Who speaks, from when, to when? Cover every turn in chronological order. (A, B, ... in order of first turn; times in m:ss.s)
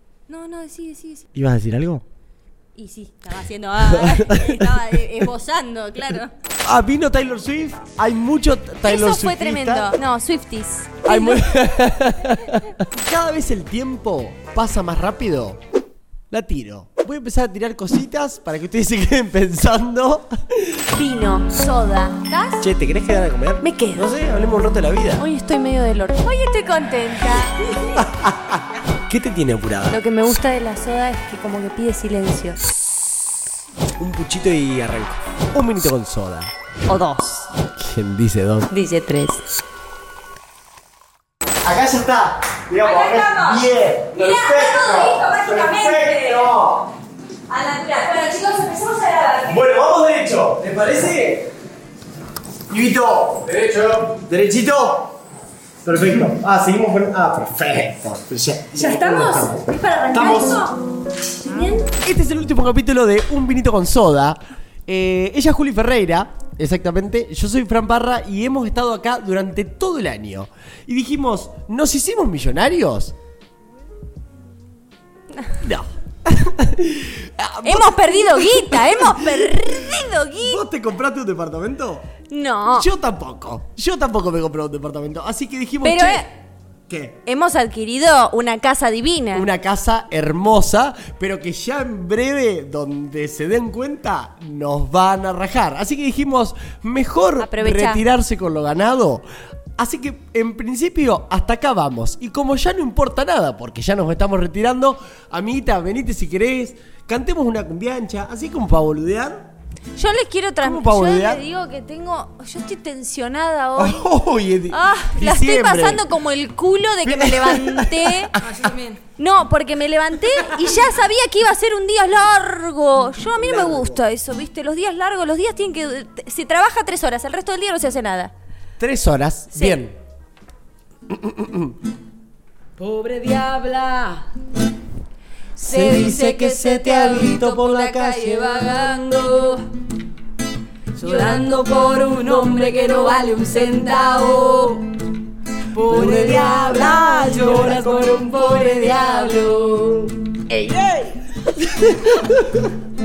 0:00.3-0:01.3 A
0:01.3-0:02.0 B
0:02.7-0:06.3 A
0:03.8-0:04.7 B
0:06.6-0:09.9 B
0:08.8-0:11.5 A
0:11.0-0:15.6 B
0:16.3-0:20.9 B
0:20.9-0:22.6 A
0:22.6-0:25.2 B
0:23.6-0:24.1 A
0:25.2-0:28.0 A
0:27.8-0:30.0 B
0:29.9-0:32.6 A
0:34.0-0:36.5 B
0:36.9-0:37.4 A
0:37.8-0:38.7 B
0:38.7-0:39.4 A
0:41.6-0:46.9 B
0:42.8-0:46.5 A
0:47.5-0:49.7 A
0:49.4-0:51.5 B
0:52.7-0:55.1 B
0:55.8-1:00.6 B
0:58.7-1:00.8 A
1:01.4-1:01.9 A
1:02.0-1:13.1 B
1:15.6-1:19.5 B
1:17.6-1:20.6 A
1:20.4-1:22.1 B
1:22.3-1:22.9 A
1:22.7-1:26.3 B
1:25.8-1:26.3 A
1:26.9-1:27.2 B
1:27.2-1:29.5 A
1:29.3-1:39.2 B
1:37.4-1:38.0 A
1:39.8-1:49.5 B
1:50.0-1:54.1 A
1:50.6-1:51.4 B
1:53.8-1:56.0 B
1:54.7-1:58.3 A
1:57.0-1:58.4 B
1:58.4-1:59.0 C
1:59.2-2:08.3 A
2:03.3-2:04.0 B
2:08.8-2:09.9 B
2:09.5-2:09.8 A
2:11.1-2:11.8 B
2:12.8-2:14.2 C
2:15.6-2:18.5 B
2:15.7-2:19.6 C
2:15.7-2:19.3 A
2:21.0-2:24.9 C
2:21.0-2:21.4 A
2:25.7-2:31.0 C
2:31.6-2:32.7 B